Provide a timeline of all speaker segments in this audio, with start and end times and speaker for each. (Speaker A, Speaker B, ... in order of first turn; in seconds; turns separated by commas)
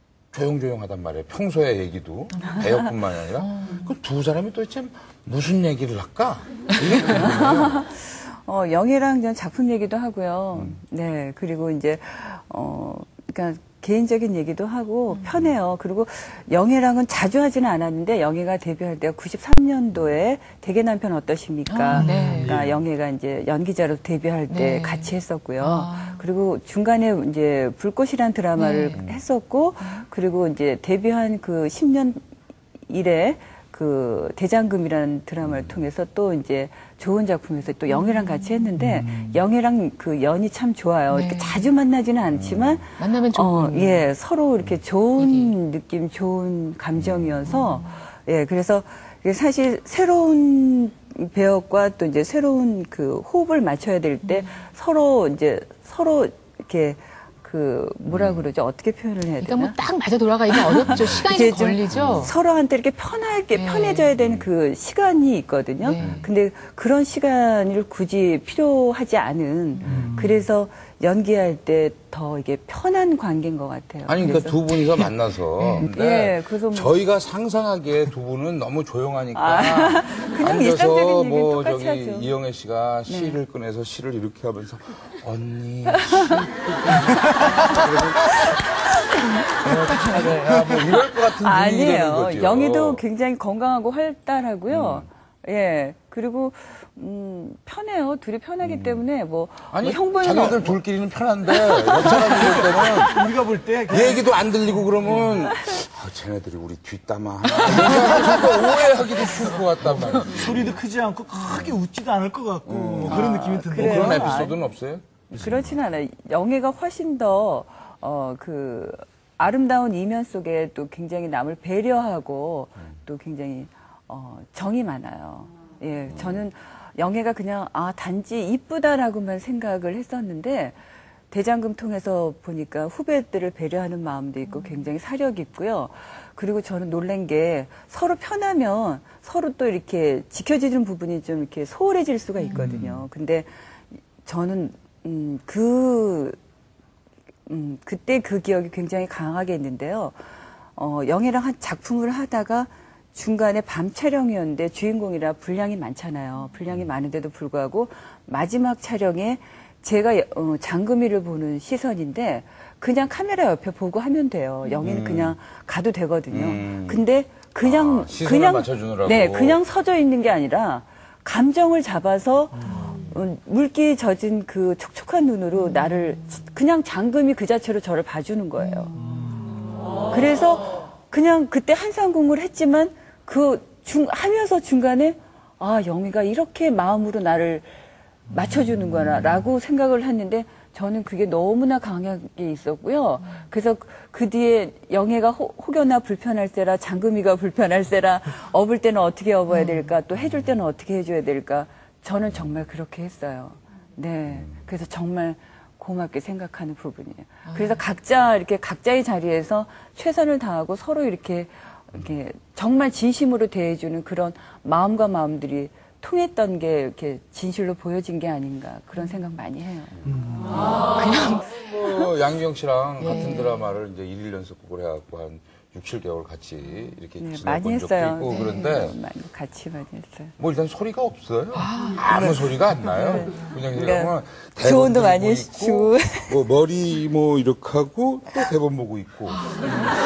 Speaker A: 0.3-7.8, Speaker B: 2.4-2.6, Speaker B: 3.4-3.9, Speaker C: 7.0-32.2, Speaker B: 15.1-15.5, Speaker B: 21.7-22.6, Speaker D: 21.9-22.8, Speaker B: 24.5-26.2, Speaker B: 28.6-29.0, Speaker A: 28.9-29.2, Speaker C: 32.9-59.8, Speaker A: 35.4-35.8, Speaker D: 38.9-39.3, Speaker B: 41.1-41.7, Speaker A: 42.3-42.8, Speaker B: 43.0-44.0, Speaker B: 45.2-45.5, Speaker A: 47.0-47.3, Speaker B: 47.5-47.8, Speaker B: 54.2-54.6, Speaker A: 58.1-58.5, Speaker B: 59.4-62.3, Speaker C: 60.5-75.0, Speaker A: 60.9-61.2, Speaker A: 61.9-62.3, Speaker B: 63.5-64.1, Speaker A: 64.2-64.5, Speaker B: 65.8-66.3, Speaker A: 66.0-66.2, Speaker B: 69.8-70.1, Speaker A: 69.8-70.2, Speaker D: 69.9-70.4, Speaker A: 74.0-88.4, Speaker C: 75.8-77.0, Speaker C: 79.3-82.3, Speaker C: 83.1-83.4, Speaker C: 86.0-86.4, Speaker C: 87.2-88.0, Speaker C: 89.1-90.4, Speaker A: 89.6-93.0, Speaker D: 90.4-90.7, Speaker C: 90.9-100.8, Speaker A: 94.7-95.1, Speaker A: 98.6-99.0, Speaker A: 99.7-103.3, Speaker C: 101.5-102.4, Speaker D: 102.0-105.3, Speaker C: 102.9-103.2, Speaker A: 103.9-110.8, Speaker C: 105.4-105.7, Speaker D: 107.7-114.4, Speaker A: 111.5-111.8, Speaker A: 112.6-115.8, Speaker C: 113.0-114.6, Speaker C: 115.3-130.7, Speaker A: 126.0-126.4, Speaker C: 131.3-143.5, Speaker B: 134.5-134.8, Speaker B: 142.4-142.8, Speaker D: 142.5-143.0, Speaker C: 144.2-146.4, Speaker C: 147.5-150.2, Speaker C: 150.8-179.0, Speaker A: 164.8-165.4, Speaker A: 166.3-167.0, Speaker A: 167.6-169.6, Speaker D: 178.9-179.4, Speaker C: 180.1-220.8, Speaker B: 199.5-199.9, Speaker A: 204.3-204.6, Speaker B: 207.4-207.8, Speaker D: 220.1-220.4, Speaker B: 220.9-221.4, Speaker A: 221.3-229.0, Speaker B: 223.0-223.5, Speaker C: 227.2-230.3, Speaker A: 230.4-239.8, Speaker B: 231.5-232.1, Speaker C: 232.1-236.4